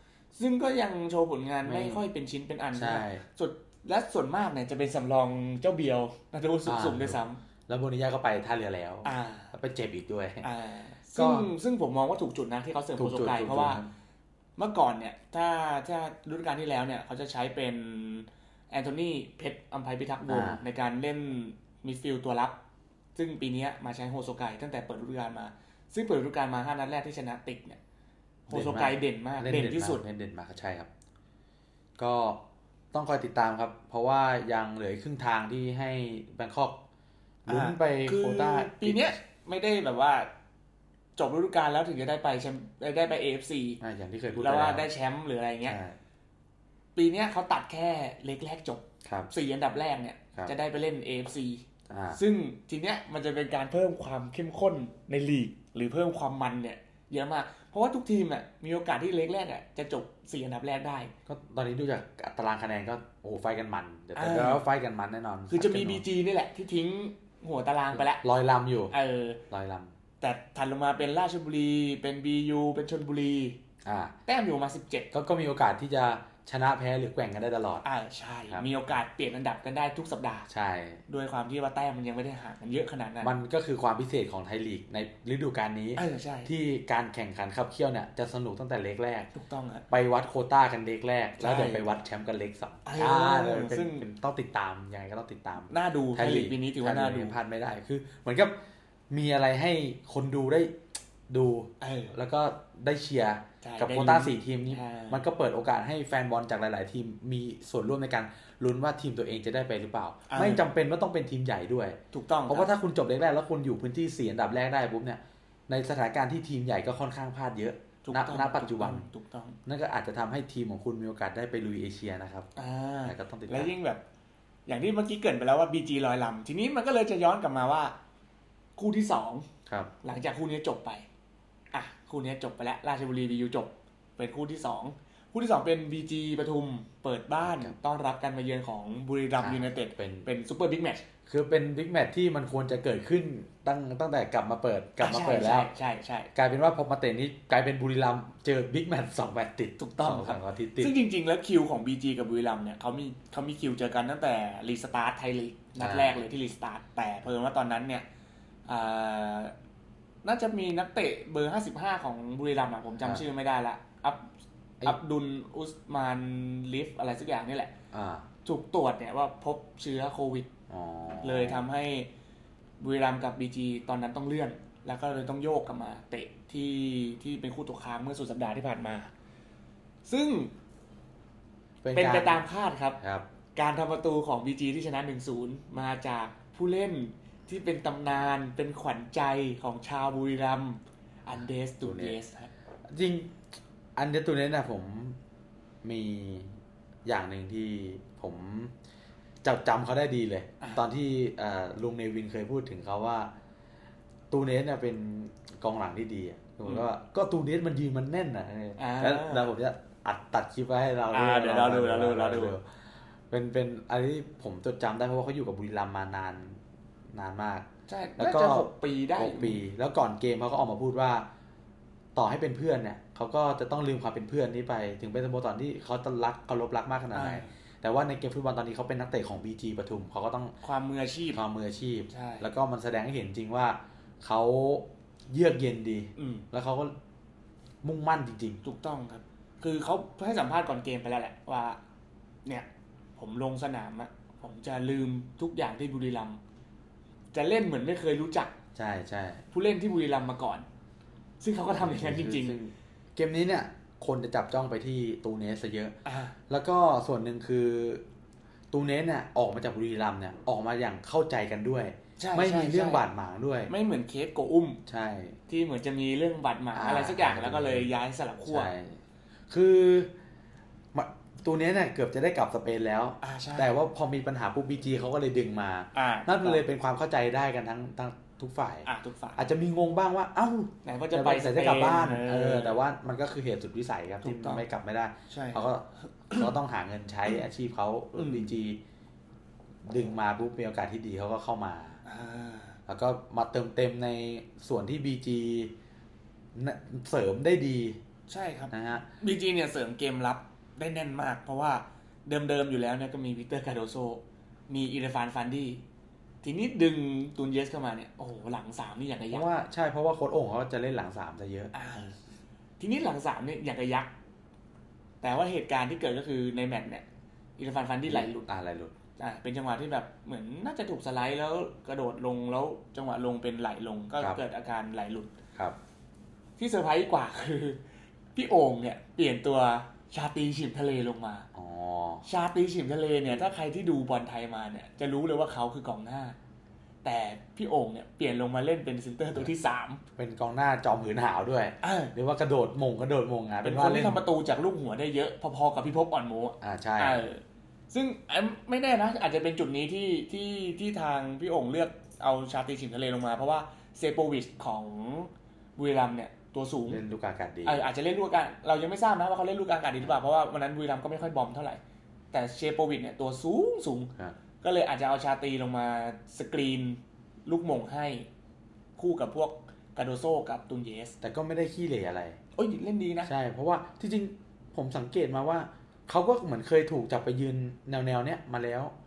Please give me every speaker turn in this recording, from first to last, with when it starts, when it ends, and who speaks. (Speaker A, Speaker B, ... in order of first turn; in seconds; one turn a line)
Speaker A: 0.3-7.4
Speaker B: 1.6-2.0
Speaker B: 2.7-3.2
Speaker B: 6.7-10.4
Speaker A: 9.0-9.5
Speaker A: 10.4-13.8
Speaker B: 11.2-11.5
Speaker B: 12.9-13.9
Speaker A: 14.6-22.6
Speaker B: 20.3-20.6
Speaker A: 23.1-27.8
Speaker A: 28.5-30.0
Speaker B: 28.5-30.9
Speaker B: 32.0-32.4
Speaker B: 32.9-36.8
Speaker B: 37.5-39.1
Speaker A: 37.5-40.3
Speaker A: 41.2-43.8
Speaker B: 43.8-44.9
Speaker A: 44.4-45.8
Speaker B: 45.6-46.0
Speaker A: 46.9-61.1
Speaker B: 49.0-49.3
Speaker B: 51.9-52.2
Speaker B: 61.3-66.0
Speaker A: 64.2-64.6
Speaker A: 65.5-68.2
Speaker B: 67.9-68.9
Speaker A: 68.9-69.4
Speaker B: 69.5-69.9
Speaker A: 70.2-73.6
Speaker B: 73.8-74.1
Speaker A: 74.2-75.1
Speaker B: 75.1-77.8
Speaker A: 77.8-80.5
Speaker B: 80.5-81.0
Speaker A: 81.1-83.3
Speaker B: 83.2-89.3
Speaker A: 86.0-86.5
Speaker A: 89.3-89.8
Speaker B: 89.9-98.5
Speaker A: 91.4-91.9
Speaker A: 92.8-94.0
Speaker A: 95.7-97.4
Speaker B: 99.1-100.8
Speaker B: 101.3-119.1
Speaker A: 101.8-102.2
Speaker A: 103.6-105.2
Speaker A: 110.3-110.6
Speaker A: 112.1-112.7
Speaker A: 118.0-119.6
Speaker B: 119.7-122.5
Speaker A: 122.5-124.0
Speaker B: 123.0-123.7
Speaker A: 124.7-127.9
Speaker A: 128.8-129.5
Speaker B: 129.7-129.9
Speaker A: 130.0-131.1
Speaker A: 131.7-141.0
Speaker B: 137.4-137.8
Speaker B: 139.4-140.3
Speaker B: 141.2-145.7
Speaker A: 145.0-146.3
Speaker B: 146.3-150.9
Speaker A: 149.8-158.0
Speaker B: 155.8-156.2
Speaker A: 158.7-159.5
Speaker A: 160.2-164.3
Speaker A: 164.8-167.7
Speaker B: 167.9-168.2
Speaker A: 168.4-170.5
Speaker B: 170.7-171.7
Speaker A: 171.2-172.1
Speaker A: 172.8-179.1
Speaker A: 180.0-180.5
Speaker B: 181.8-182.5
Speaker A: 181.9-183.0
Speaker B: 183.0-183.3
Speaker A: 183.5-192.5
Speaker B: 191.8-192.2
Speaker B: 192.9-193.4
Speaker B: 193.9-195.2
Speaker B: 195.8-198.7
Speaker B: 199.4-203.3
Speaker B: 204.3-216.6
Speaker A: 208.8-209.5
Speaker A: 211.1-212.5
Speaker B: 217.1-217.7
Speaker A: 217.9-219.6
Speaker B: 218.2-221.3
Speaker B: 222.1-230.5
Speaker A: 227.1-227.5
Speaker A: 230.6-231.4
Speaker B: 231.3-236.9
Speaker A: 232.1-232.5
Speaker A: 236.2-236.4
Speaker B: 237.8-238.6
Speaker A: 238.6-241.8
Speaker A: 242.4-246.4
Speaker A: 247.3-248.5
Speaker B: 248.7-249.4
Speaker A: 249.5-250.7
Speaker A: 251.4-252.6
Speaker B: 251.8-255.9
Speaker A: 256.0-256.4
Speaker B: 256.5-258.0
Speaker B: 258.7-263.7
Speaker A: 262.2-263.0
Speaker A: 263.7-264.8
Speaker B: 264.9-265.4
Speaker A: 265.5-268.7
Speaker B: 266.7-267.9
Speaker B: 268.5-270.1
Speaker B: 270.9-288.8
Speaker A: 273.2-273.7
Speaker A: 275.9-276.6
Speaker A: 278.8-279.5
Speaker A: 280.8-282.8
Speaker A: 284.2-284.6
Speaker A: 285.3-286.5
Speaker A: 288.1-288.5
Speaker B: 289.9-292.0
Speaker A: 292.0-292.8
Speaker B: 292.9-295.7
Speaker B: 296.5-298.0
Speaker A: 298.3-305.8
Speaker B: 298.7-299.1
Speaker A: 306.4-309.5
Speaker B: 309.3-312.1
Speaker A: 311.7-312.2
Speaker A: 312.8-314.1
Speaker A: 315.2-317.0
Speaker A: 317.6-318.5
Speaker B: 318.1-318.9
Speaker A: 319.2-325.4
Speaker A: 326.6-327.8
Speaker A: 328.3-331.5
Speaker B: 331.5-332.2
Speaker A: 332.2-336.4
Speaker A: 337.0-340.0
Speaker B: 340.2-344.2
Speaker A: 341.8-342.1
Speaker A: 343.6-357.0
Speaker B: 346.6-347.3
Speaker B: 356.9-357.8
Speaker A: 357.6-361.8
Speaker A: 362.3-368.3
Speaker A: 369.0-371.1
Speaker B: 371.2-372.4
Speaker A: 372.6-373.3
Speaker B: 373.2-378.9